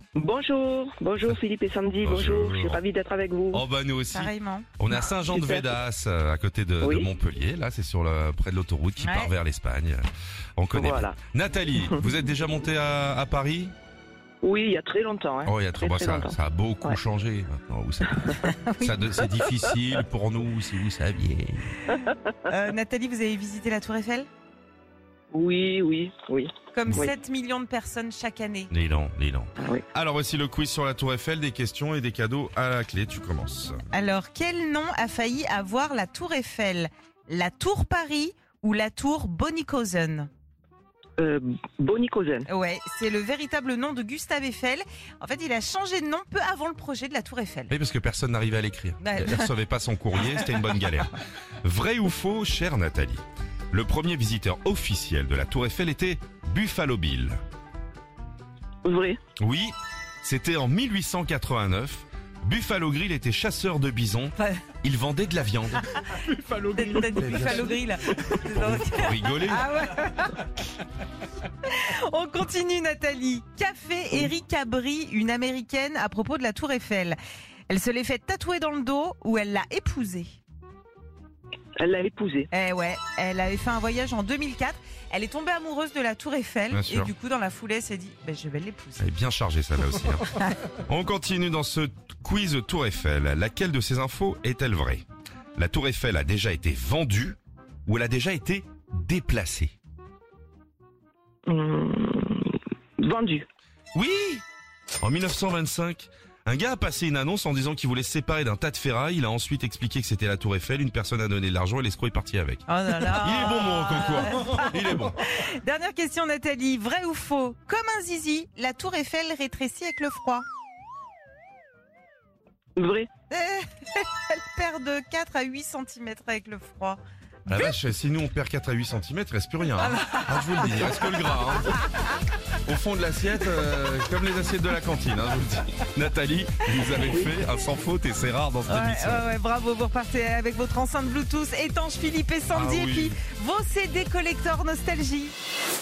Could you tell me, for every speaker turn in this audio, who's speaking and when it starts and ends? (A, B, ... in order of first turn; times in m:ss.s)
0:00.2-0:03.6 A
0:02.0-0:02.8 B
0:03.5-0:13.7 B
0:04.1-0:04.7 C
0:04.9-0:05.7 A
0:06.8-0:07.1 A
0:09.0-0:09.3 C
0:10.7-0:11.2 A
0:14.4-0:17.0 A
0:15.4-0:21.8 B
0:18.4-0:19.0 C
0:22.4-0:24.3 C
0:25.3-0:27.1 A
0:26.7-0:28.7 C
0:28.7-0:33.8 B
0:29.6-0:29.8 A
0:33.9-0:40.3 C
0:41.2-0:42.5 A
0:42.5-0:47.7 C
0:47.7-0:57.4 B
0:49.0-0:49.5 C
0:58.8-0:59.2 A
0:59.4-1:06.0 B
1:04.4-1:04.6 C
1:06.1-1:10.5 C
1:07.2-1:07.8 B
1:08.5-1:09.7 B
1:11.6-1:17.2 C
1:17.7-1:20.4 C
1:21.8-1:22.5 A
1:22.5-1:29.0 C
1:26.7-1:27.1 B
1:29.0-1:39.8 B
1:41.5-1:43.4 A
1:44.0-1:44.4 B
1:45.0-1:55.2 B
1:52.7-2:00.4 C
2:02.8-2:03.1 A
2:03.3-2:07.7 C
2:07.5-2:12.1 B
2:09.8-2:11.0 C
2:12.6-2:19.2 B
2:18.7-2:25.3 C
2:22.5-2:23.2 B